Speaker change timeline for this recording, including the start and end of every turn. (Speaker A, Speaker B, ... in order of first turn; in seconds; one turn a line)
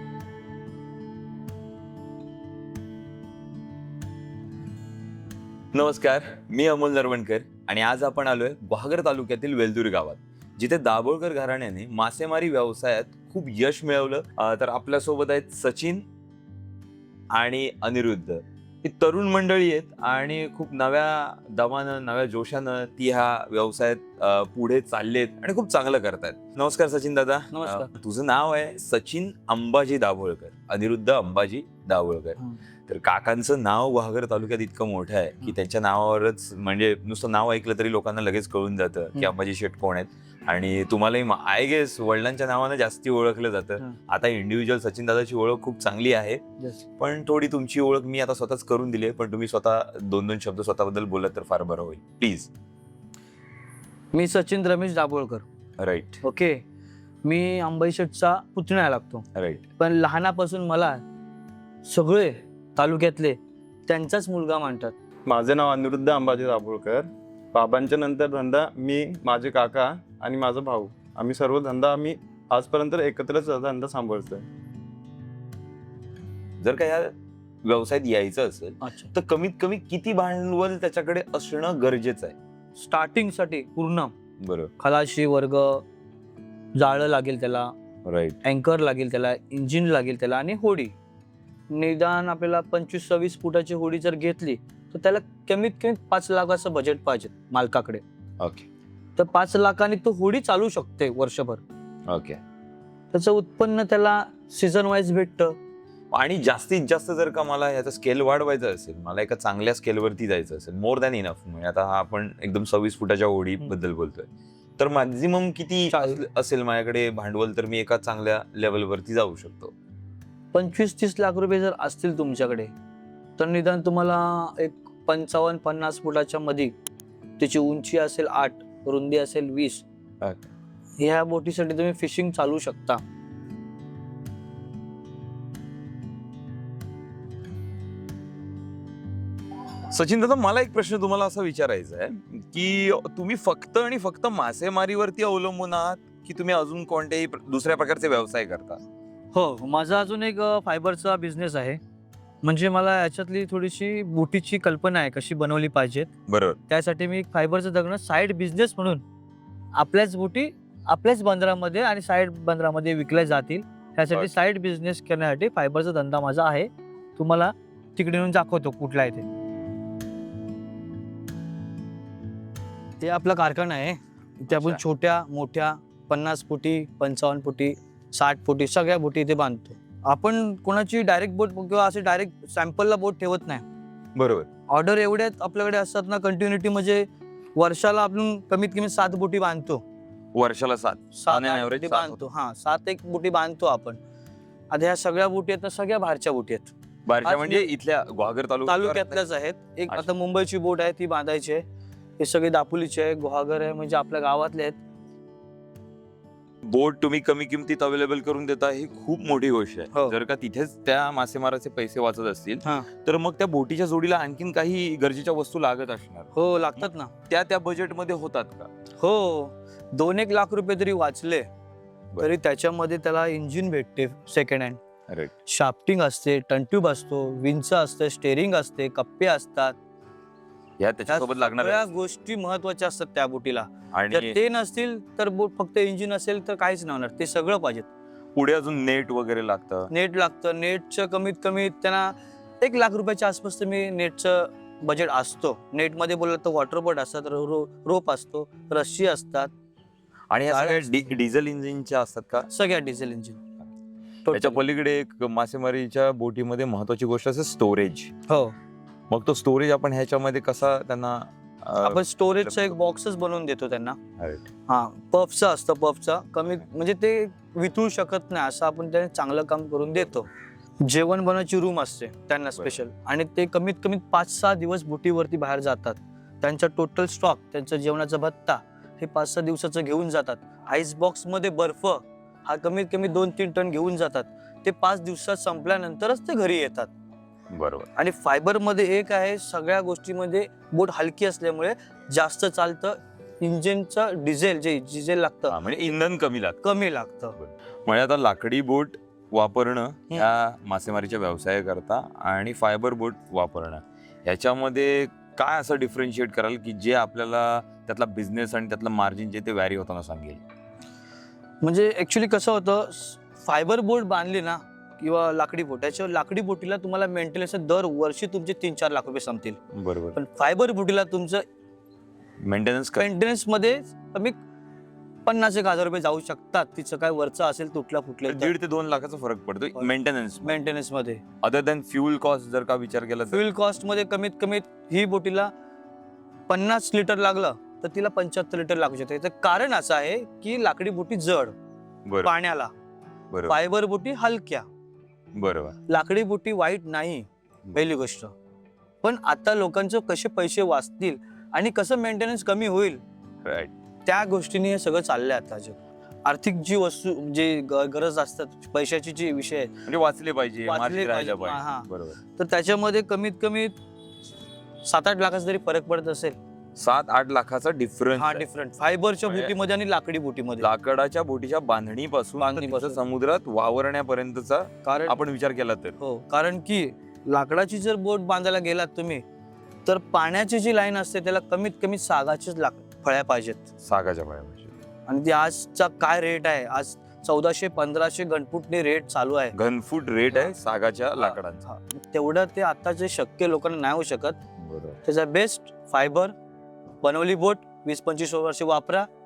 Speaker A: 5.7-16.1
Speaker A: 17.3-46.4
Speaker B: 27.5-27.9
Speaker A: 47.0-52.5
Speaker B: 54.1-55.5
Speaker A: 55.8-56.2
Speaker B: 56.2-56.6
Speaker B: 57.2-59.3
Speaker A: 59.4-59.6
Speaker B: 59.8-61.0
Speaker B: 61.8-64.9
Speaker C: 65.3-74.5
Speaker A: 76.6-82.4
Speaker B: 78.8-79.1
Speaker B: 82.8-84.1
Speaker A: 84.4-84.7
Speaker B: 84.8-85.8
Speaker B: 86.8-87.7
Speaker A: 88.0-88.4
Speaker B: 88.4-91.0
Speaker B: 91.7-98.0
Speaker A: 98.4-98.7
Speaker B: 99.2-101.6
Speaker A: 102.1-102.4
Speaker B: 103.1-105.6
Speaker A: 106.1-119.7
Speaker B: 115.9-116.2
Speaker B: 120.5-122.7
Speaker B: 123.4-126.7
Speaker B: 127.4-129.8
Speaker A: 130.2-130.5
Speaker B: 131.0-133.0
Speaker A: 139.9-148.8
Speaker B: 149.3-151.8
Speaker B: 152.4-156.1
Speaker A: 156.3-156.6
Speaker B: 156.7-159.0
Speaker B: 159.8-169.3
Speaker B: 173.0-183.7
Speaker A: 174.5-174.8
Speaker A: 184.2-184.5
Speaker B: 184.7-189.8
Speaker A: 190.3-192.2
Speaker B: 191.2-194.0
Speaker B: 194.7-196.7
Speaker A: 197.1-199.2
Speaker B: 197.2-197.7
Speaker B: 198.7-201.6
Speaker B: 202.2-204.8
Speaker A: 206.6-218.7
Speaker B: 216.3-217.1
Speaker B: 219.0-221.5
Speaker B: 222.2-224.8
Speaker B: 225.5-229.8
Speaker A: 230.8-231.9
Speaker B: 231.1-237.9
Speaker A: 233.9-234.4
Speaker A: 238.3-239.9
Speaker B: 239.9-249.5
Speaker A: 250.3-252.5
Speaker B: 250.5-250.9
Speaker B: 252.5-253.4
Speaker B: 254.2-254.6
Speaker A: 254.3-258.1
Speaker B: 258.3-258.6
Speaker A: 259.1-262.8
Speaker B: 261.8-264.0
Speaker A: 264.2-264.5
Speaker B: 264.7-270.3
Speaker B: 270.8-286.9
Speaker A: 272.6-272.8
Speaker A: 287.5-287.9
Speaker B: 288.0-295.6
Speaker A: 295.5-296.6
Speaker B: 296.6-297.4
Speaker A: 297.4-310.4
Speaker B: 311.6-319.6
Speaker A: 319.7-320.2
Speaker B: 320.1-321.4
Speaker A: 322.4-323.1
Speaker B: 323.0-324.4
Speaker B: 325.3-328.5
Speaker A: 328.3-330.6
Speaker B: 330.4-331.2
Speaker A: 331.4-333.4
Speaker B: 333.3-335.5
Speaker B: 336.5-341.6
Speaker A: 342.1-342.3
Speaker B: 342.2-342.7
Speaker B: 343.5-344.7
Speaker A: 345.4-345.8
Speaker B: 345.9-348.3
Speaker B: 349.0-353.0
Speaker A: 353.4-353.7
Speaker B: 354.1-359.7
Speaker A: 359.9-362.2
Speaker B: 360.7-363.7
Speaker B: 364.8-366.4
Speaker A: 366.8-368.5
Speaker B: 368.2-370.7
Speaker A: 369.3-369.5
Speaker A: 370.6-376.0
Speaker B: 372.4-373.0
Speaker B: 374.8-375.2
Speaker B: 376.0-379.2
Speaker B: 379.9-383.7
Speaker A: 383.8-384.8
Speaker B: 385.1-389.6
Speaker A: 389.5-391.6
Speaker B: 391.2-394.4
Speaker A: 394.6-395.0
Speaker B: 395.0-396.4
Speaker B: 397.0-399.1